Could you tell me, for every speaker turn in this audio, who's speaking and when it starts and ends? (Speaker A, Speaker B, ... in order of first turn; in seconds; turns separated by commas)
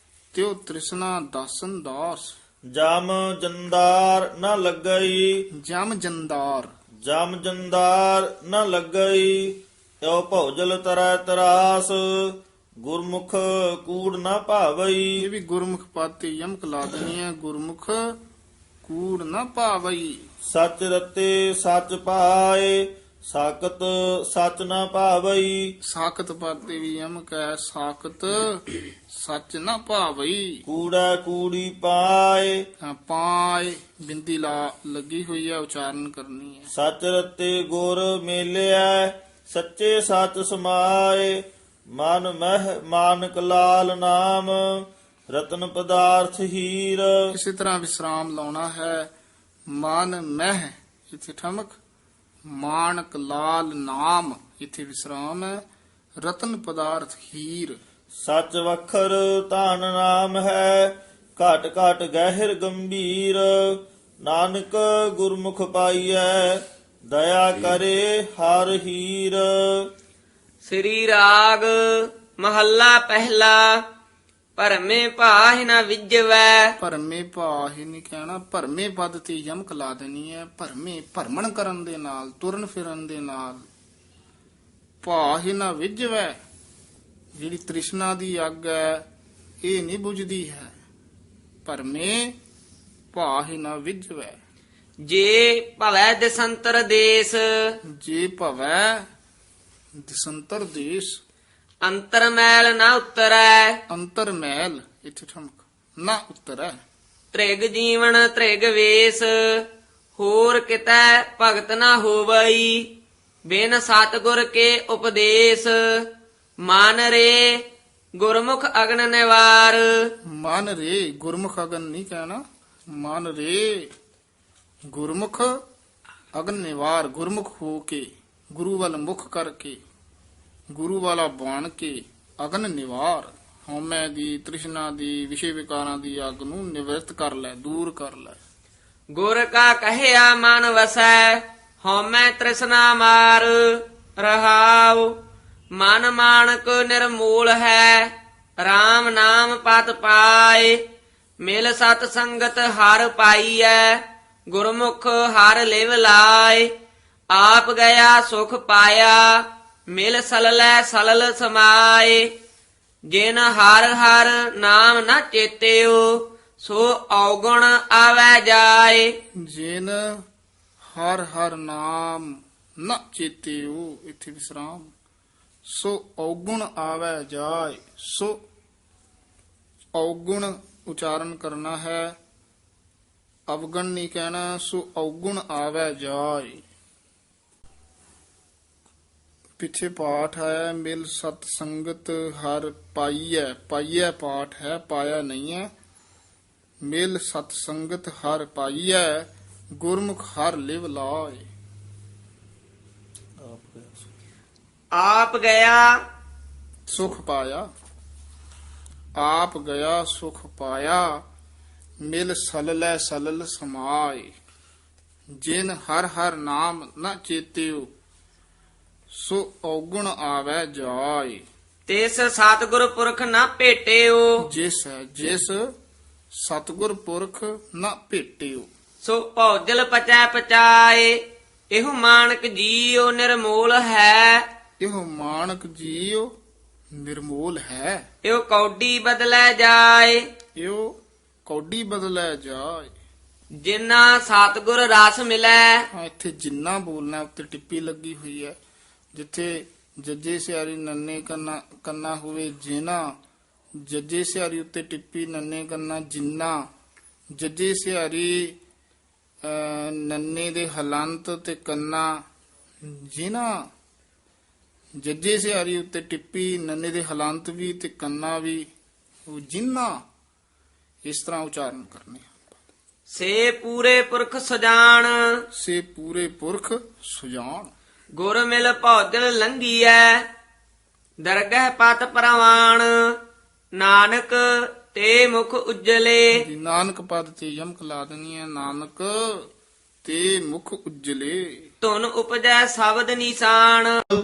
Speaker A: 0.3-2.3, Speaker B: 2.7-5.4, Speaker A: 5.5-6.7, Speaker B: 7.0-12.1, Speaker B: 12.8-15.2, Speaker A: 15.2-18.2, Speaker A: 18.8-20.2, Speaker B: 20.4-25.7, Speaker A: 25.8-30.6, Speaker B: 30.6-32.6, Speaker A: 32.8-36.7, Speaker B: 36.7-41.4, Speaker B: 41.9-47.1, Speaker A: 47.3-49.1, Speaker A: 49.7-51.8, Speaker A: 52.5-55.6, Speaker A: 56.2-57.8, Speaker B: 58.2-69.9, Speaker C: 70.6-73.8, Speaker C: 74.6-76.7, Speaker A: 76.8-83.6, Speaker A: 85.0-86.4, Speaker A: 87.3-89.0, Speaker A: 89.6-90.7, Speaker A: 91.6-92.4, Speaker A: 93.1-94.4, Speaker C: 95.0-97.7, Speaker A: 97.9-99.1, Speaker A: 100.0-101.2, Speaker C: 101.8-103.8, Speaker A: 103.9-106.8, Speaker C: 107.3-109.6, Speaker C: 110.2-112.8, Speaker C: 113.5-116.0, Speaker C: 116.7-117.5, Speaker C: 118.2-119.9, Speaker A: 120.3-123.9, Speaker A: 124.9-125.6, Speaker A: 126.3-129.8, Speaker A: 130.7-138.4, Speaker C: 139.1-145.1, Speaker C: 145.8-150.8, Speaker C: 151.4-156.7, Speaker C: 157.3-162.3, Speaker C: 163.1-169.1, Speaker A: 169.4-170.2, Speaker A: 170.8-174.9, Speaker A: 175.7-178.4, Speaker A: 179.9-182.2, Speaker A: 183.5-186.6, Speaker A: 189.6-195.7, Speaker A: 196.8-201.5, Speaker B: 203.5-203.9, Speaker C: 204.9-205.9, Speaker A: 206.9-207.7, Speaker A: 209.2-211.2, Speaker A: 212.0-214.3, Speaker A: 215.4-217.9, Speaker A: 219.1-221.4, Speaker C: 221.9-224.3, Speaker A: 224.4-225.7, Speaker A: 226.3-228.7, Speaker C: 229.0-231.2, Speaker C: 231.7-234.4, Speaker A: 234.8-236.3, Speaker A: 236.9-238.0, Speaker C: 238.2-240.2, Speaker A: 240.6-242.9, Speaker C: 243.6-245.8, Speaker A: 245.9-248.6, Speaker A: 249.1-253.1, Speaker A: 253.8-256.7, Speaker A: 257.3-258.6, Speaker A: 259.4-262.2, Speaker A: 262.8-263.7, Speaker A: 265.0-268.7, Speaker A: 269.3-270.0, Speaker A: 271.0-272.6, Speaker C: 273.1-275.4, Speaker A: 275.5-277.7, Speaker C: 278.2-280.2, Speaker C: 281.2-282.9, Speaker C: 283.8-286.4, Speaker A: 286.3-289.5, Speaker A: 290.0-291.7, Speaker C: 291.8-294.0